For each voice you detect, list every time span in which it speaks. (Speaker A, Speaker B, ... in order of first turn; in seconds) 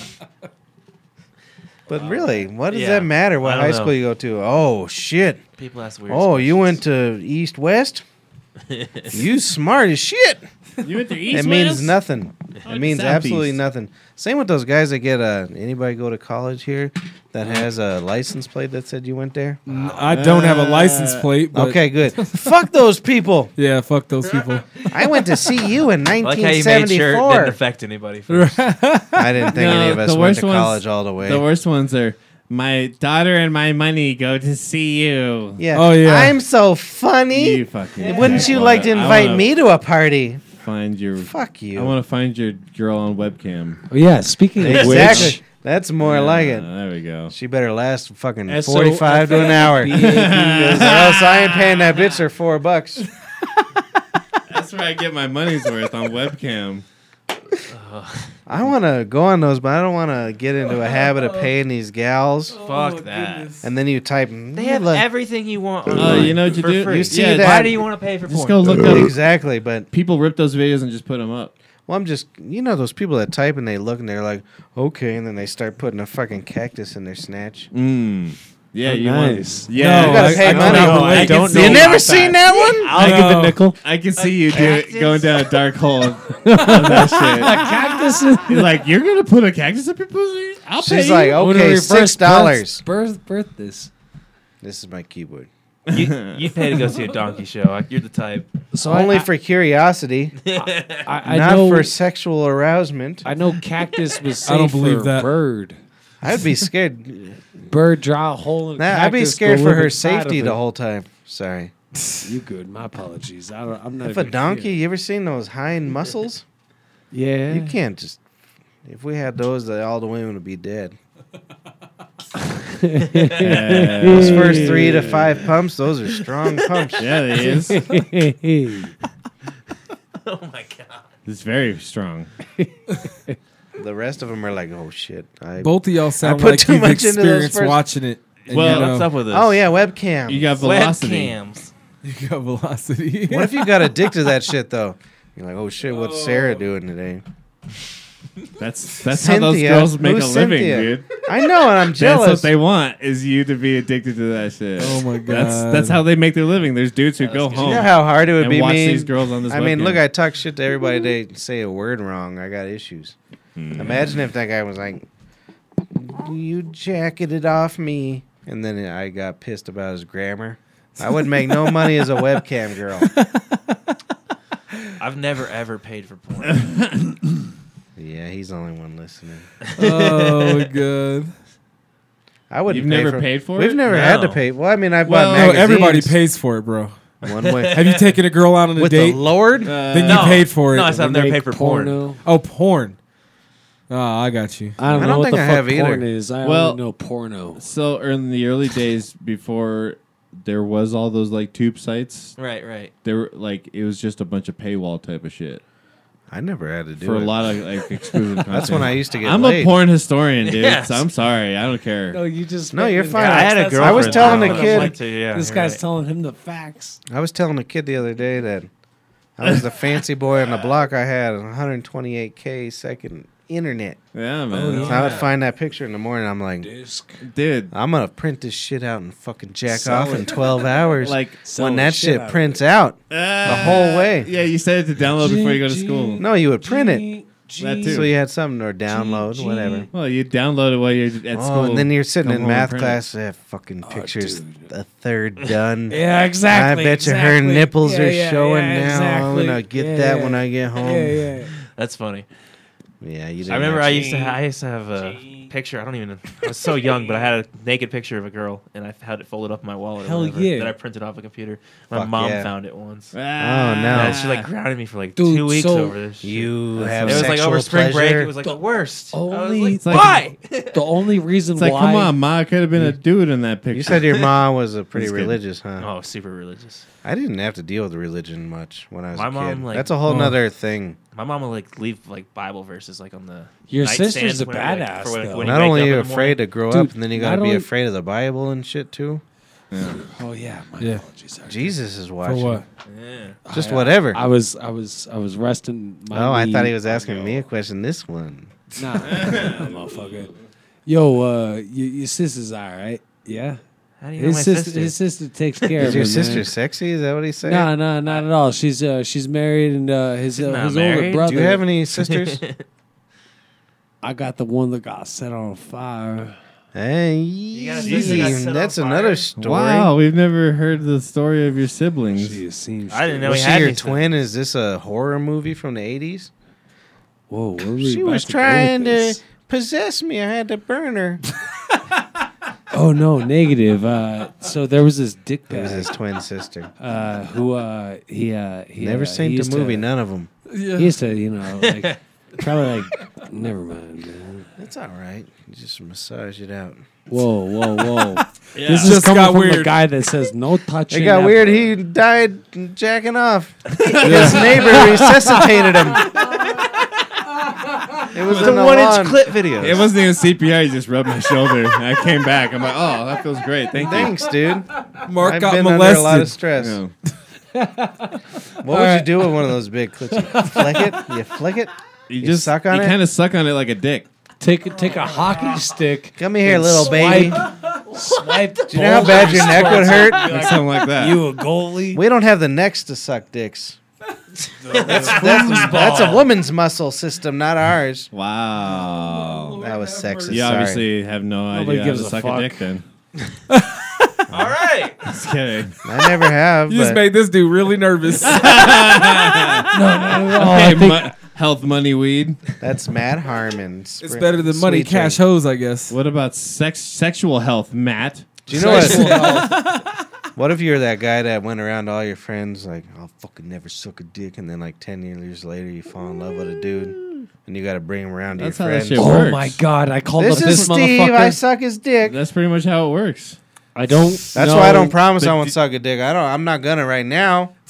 Speaker A: 1.9-5.4, 6.1-8.0, 9.1-10.4, 11.3-19.6, 21.5-23.5, 24.9-27.6, 29.1-31.4, 35.6-40.4, 41.2-42.0, 44.6-46.7, 47.3-53.1, 58.5-62.6, 63.6-65.0, 65.9-67.8, 68.7-69.9, 71.9-77.7, 79.8-83.0, 90.8-92.8, 94.6-95.5, 98.8-100.4, 101.2-103.3, 106.2-107.4, 108.8-111.7, 114.0-116.4, 117.5-118.2, 118.8-121.0, 124.0-127.1, 133.8-137.8, 139.2-140.6, 143.3-147.2, 149.1-152.5, 157.6-163.2, 163.7-165.1, 165.9-173.1, 177.9-179.5, 182.5-186.2, 187.2-187.8, 188.8-189.8, 194.9-196.1, 206.3-207.5, 208.5-209.8, 212.7-214.9, 217.1-218.7, 219.4-224.0, 224.8-226.7, 227.7-234.3, 236.2-237.1, 237.8-239.9, 241.3-251.3, 253.0-254.1, 261.9-262.5, 263.4-264.2, 266.2-268.3, 273.7-275.9, 277.0-281.0, 285.4-289.2, 291.4-292.6, 293.5-294.2, 296.1-298.6, 305.8-307.7, 311.2-312.4, 316.7-319.9, 323.2-326.3, 327.8-331.2, 335.5-336.7, 338.8-340.3, 344.6-346.8, 350.9-356.1, 358.1-359.3, 363.7-366.8, 368.6-373.0, 376.2-377.4, 378.7-380.3, 381.9-383.8, 384.9-388.1, 389.6-390.9, 394.3-394.6, 395.8-397.0, 402.6-405.2, 408.5-409.4, 410.3-419.2, 420.2-422.2, 424.3-427.5
Speaker B: 2.6-3.9, 5.6-6.8, 8.7-9.2, 26.2-28.6, 57.7-58.4, 62.6-63.5, 64.5-68.8, 84.1-85.6, 95.9-98.5, 100.4-101.1, 130.2-131.1, 138.5-139.6, 140.6-141.7, 157.2-157.9, 175.0-176.7, 179.7-180.7, 183.9-184.4, 187.3-188.1, 190.0-192.0, 202.4-202.9, 210.4-211.1, 213.1-215.8, 224.7-225.3, 251.7-252.3, 253.5-263.1, 263.9-270.9, 275.8-276.8, 279.1-280.0, 281.1-286.4, 292.9-293.4, 304.0-304.9, 305.6-306.0, 310.4-311.4, 311.9-312.6, 317.5-319.2, 322.9-324.1, 341.6-342.0, 358.2-359.9, 378.3-379.1, 384.6-386.0, 394.3-395.1
Speaker C: 10.8-12.0, 12.6-13.6, 19.7-21.3, 29.5-35.6, 37.3-39.5, 40.6-43.8, 44.7-45.3, 46.0-47.3, 50.0-52.0, 54.5-56.8, 65.9-69.1, 69.9-71.5, 77.7-81.9, 83.8-91.4, 95.9-96.4, 123.3-125.3, 127.0-128.0, 131.2-132.3, 138.5-138.9, 140.3-141.3, 148.6-151.2, 151.8-160.0, 163.6-164.1, 176.4-177.2, 182.7-183.8, 185.0-185.8, 189.6-190.5, 196.4-196.8, 197.6-202.3, 203.0-205.6, 207.0-212.2, 224.1-225.1, 227.2-227.7, 231.0-231.4, 233.1-236.2, 237.6-238.1, 239.9-243.0, 263.1-264.5, 266.9-267.2, 269.8-270.1, 271.6-274.3, 274.9-275.4, 289.7-290.1, 299.0-299.8, 317.9-318.4, 319.4-322.4, 348.5-349.0, 353.8-354.9, 359.6-364.3, 366.6-366.9, 372.1-374.1, 379.2-381.3, 388.1-389.6, 390.3-392.8, 395.1-395.8, 398.2-402.4, 405.9-409.4, 418.4-419.6, 422.0-423.4, 425.2-425.5
Speaker D: 19.6-22.5, 23.6-24.9, 28.3-29.4, 35.7-36.4, 62.6-63.6, 79.7-82.0, 82.9-83.7, 104.4-105.3, 135.6-139.1, 142.0-143.9, 154.8-156.0, 179.8-181.3, 185.2-187.0, 187.7-190.9, 192.2-193.0, 193.9-194.8, 280.0-280.4, 292.2-292.6, 340.5-340.9, 348.8-349.8, 365.0-366.4, 388.7-390.5, 393.5-394.2, 396.7-399.6, 404.0-405.9, 408.5-409.9
Speaker E: 43.9-45.4, 48.5-50.9, 78.8-83.8, 86.4-88.7, 91.3-93.9, 98.7-99.3, 100.5-101.9, 103.2-105.8, 107.6-110.6, 112.2-114.8, 117.1-117.7, 122.6-125.3, 127.7-128.9, 132.6-133.4, 190.7-192.2, 194.8-197.6, 212.1-217.0, 224.5-225.3, 226.6-227.3, 229.7-232.6, 235.2-238.1, 238.9-239.9, 243.8-244.7, 245.9-251.5, 253.9-254.4, 255.0-255.5, 256.8-257.3, 260.0-260.7, 265.1-265.9, 269.1-272.2, 283.7-285.6, 286.7-287.7, 290.0-291.7, 293.4-297.4, 298.8-300.3, 300.9-303.6, 304.2-306.5, 307.4-311.6, 314.0-316.4, 322.1-323.7, 327.3-329.2, 332.7-335.9, 336.8-339.9, 340.8-344.5, 347.1-351.7, 354.1-355.5, 367.5-369.3, 370.2-371.0, 374.4-382.0, 384.6-386.3, 391.5-392.7, 399.7-401.1, 408.6-409.5, 418.9-421.4, 423.7-425.0